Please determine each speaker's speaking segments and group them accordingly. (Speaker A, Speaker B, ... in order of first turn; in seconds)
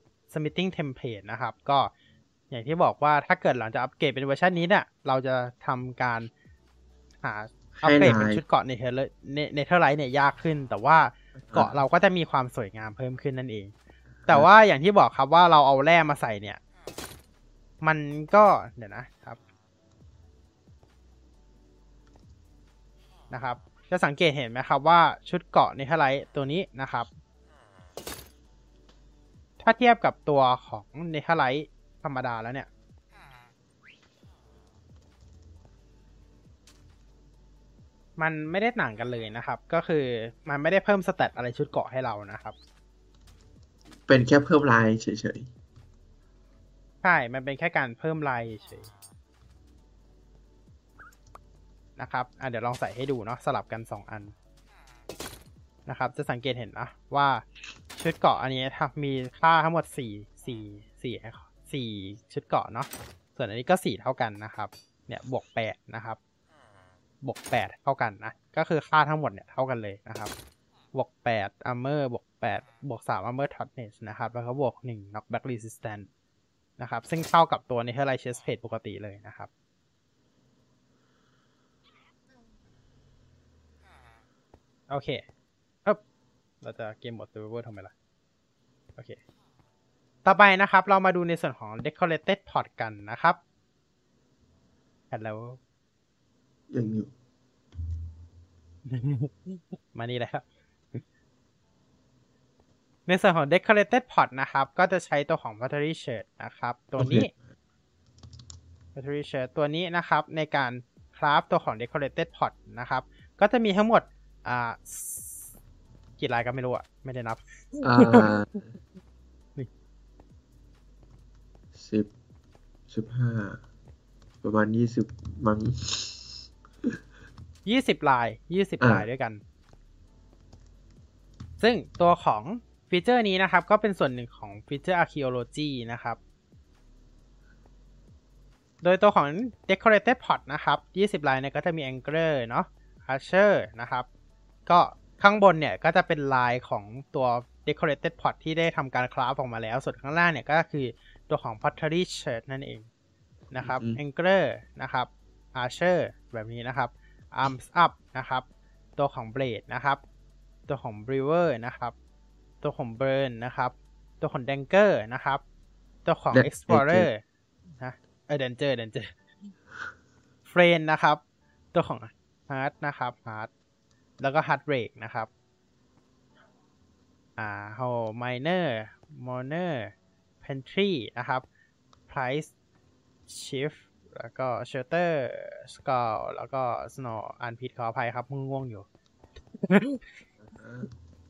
Speaker A: 0.3-1.9, 2.5-6.3, 7.2-13.7, 14.3-16.6, 17.8-19.4, 23.3-27.1, 29.6-32.7, 38.2-42.5, 47.0-48.9, 52.0-54.3, 55.9-66.2, 67.2-70.3, 70.9-76.1, 76.8-79.5, 84.9-85.2, 86.6-87.9, 90.2-93.4, 95.1-95.6, 98.9-100.4, 103.1-107.3, 108.9-115.4, 116.2-118.3, 127.6-129.4, 131.6-136.2, 138.8-144.1, 144.7-152.9, 153.5-158.4, 159.0-160.0, 160.7-161.9, 162.6-165.4, 166.0-167.2, 167.8-169.1, 170.5-171.2, 171.7-173.5, 174.2-175.3, 177.4-179.9, 180.4-181.4, 182.1-182.5, 183.3-188.8, 189.6-190.1
Speaker B: 7.8-8.4, 11.4-11.8, 14.2-14.5, 44.1-45.5, 96.7-97.1, 107.0-107.5, 117.8-118.7, 121.7-122.1, 122.9-123.6, 124.4-127.0, 153.6-154.0, 166.3-167.1, 190.4-190.9